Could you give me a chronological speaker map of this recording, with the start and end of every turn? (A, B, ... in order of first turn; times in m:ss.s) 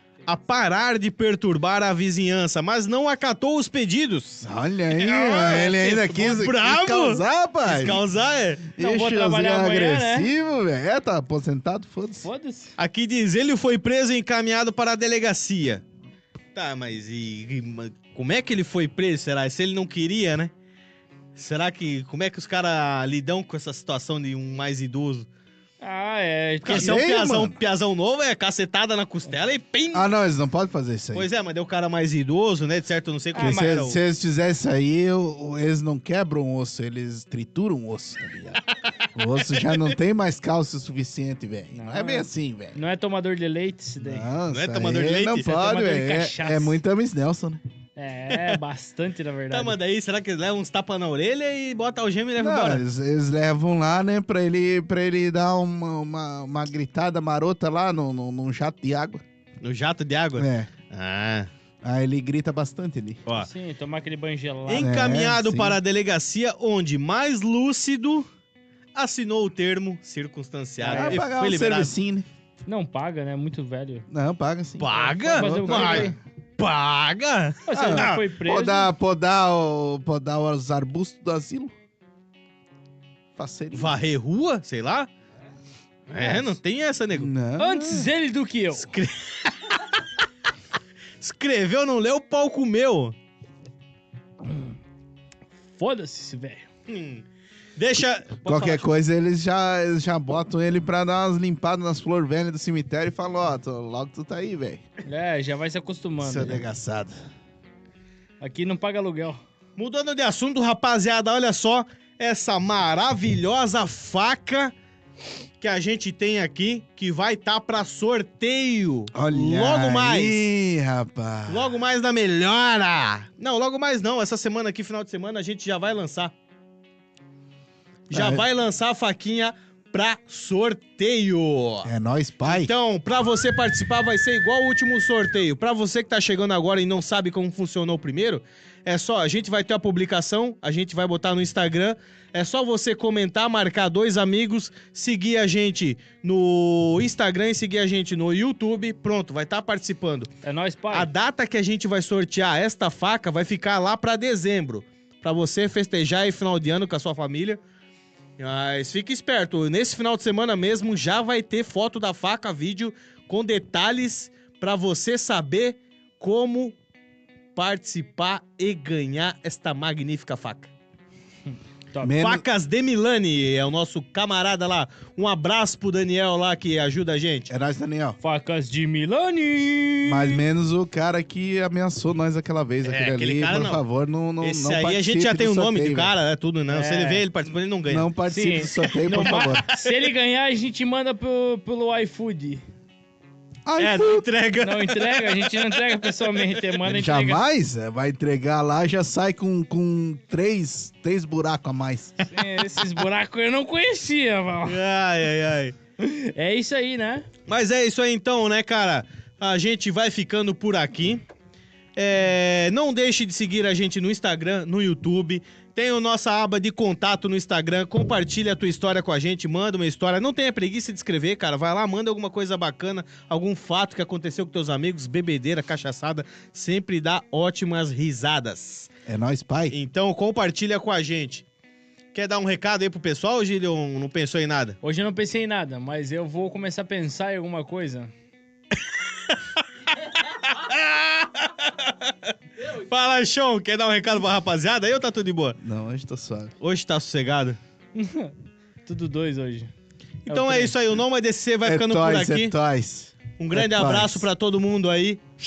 0:00.2-0:08.7 A
0:04.4-0:08.0 B
0:08.7-0:12.3 B
0:08.8-0:10.3 C
0:12.2-0:12.7 C
0:12.8-0:15.8 A
0:16.5-0:20.5 A
0:21.3-0:25.3 A
0:25.8-0:27.0 C
0:26.6-0:30.0 A
0:26.6-0:27.6 B
0:29.9-0:31.3 B
0:31.1-0:34.0 A
0:33.3-0:33.8 C
0:33.4-0:38.6 B
0:39.1-0:42.8 B
0:39.5-0:39.9 A
0:41.7-0:44.3 C
0:44.0-0:47.6 B
0:44.5-0:45.5 A
0:45.4-0:46.8 C
0:48.0-0:49.8 C
0:48.3-0:48.6 A
0:49.5-0:52.8 A
0:52.4-0:59.2 B
0:59.6-1:01.5 A
1:00.4-1:00.7 B
1:01.8-1:03.2 B
1:03.3-1:05.0 C
1:04.7-1:08.3 A
1:04.8-1:05.8 B
1:08.9-1:11.9 A
1:10.8-1:11.2 C
1:10.9-1:12.2 B
1:12.6-1:14.0 C
1:14.1-1:16.1 B
1:14.8-1:18.2 A
1:15.0-1:16.2 C
1:17.7-1:18.9 C
1:17.7-1:21.7 B
1:23.4-1:24.0 B
1:23.7-1:25.1 A
1:26.1-1:27.3 A
1:27.1-1:28.1 B
1:27.6-1:28.9 C
1:28.8-1:29.9 A
1:31.2-1:33.2 A
1:35.7-1:36.6 C
1:36.9-1:37.2 A
1:37.8-1:38.9 A
1:38.4-1:44.8 B
1:45.0-1:46.6 C
1:46.2-1:47.1 B
1:48.4-1:49.4 C
1:49.8-1:54.7 A
1:55.6-2:00.4 A
1:59.1-2:01.8 B
2:01.5-2:06.3 A
2:08.1-2:08.4 B
2:08.1-2:11.9 A
2:11.8-2:12.7 B
2:12.4-2:30.3 A
2:30.4-2:31.1 C
2:30.9-2:37.6 A
2:38.4-2:46.8 A
2:47.5-2:50.7 A
2:51.9-2:52.2 C
2:52.0-2:52.4 B
2:52.2-2:57.5 A
2:57.5-2:58.2 B
2:58.2-3:00.4 C
3:00.0-3:06.1 B
3:02.8-3:03.8 A
3:04.4-3:08.1 A
3:06.7-3:07.2 C
3:07.9-3:09.6 B
3:08.3-3:12.6 C
3:09.2-3:10.0 A
3:13.6-3:14.2 B
3:13.8-3:16.6 A
3:14.6-3:17.4 C
3:16.8-3:22.2 B
3:22.3-3:24.8 C
3:24.6-3:25.8 A
3:26.0-3:27.3 C
3:27.5-3:31.2 A
3:32.0-3:48.9 A
3:49.0-3:49.8 B
3:49.7-3:51.4 A
3:52.1-3:54.8 A
3:54.8-3:58.1 C
4:00.3-4:05.6 A
4:05.6-4:06.5 B
4:06.6-4:07.6 A
4:07.9-4:08.3 C
4:08.8-4:09.7 C
4:10.2-4:12.5 A
4:10.3-4:10.7 C
4:11.6-4:14.3 B
4:13.4-4:15.2 A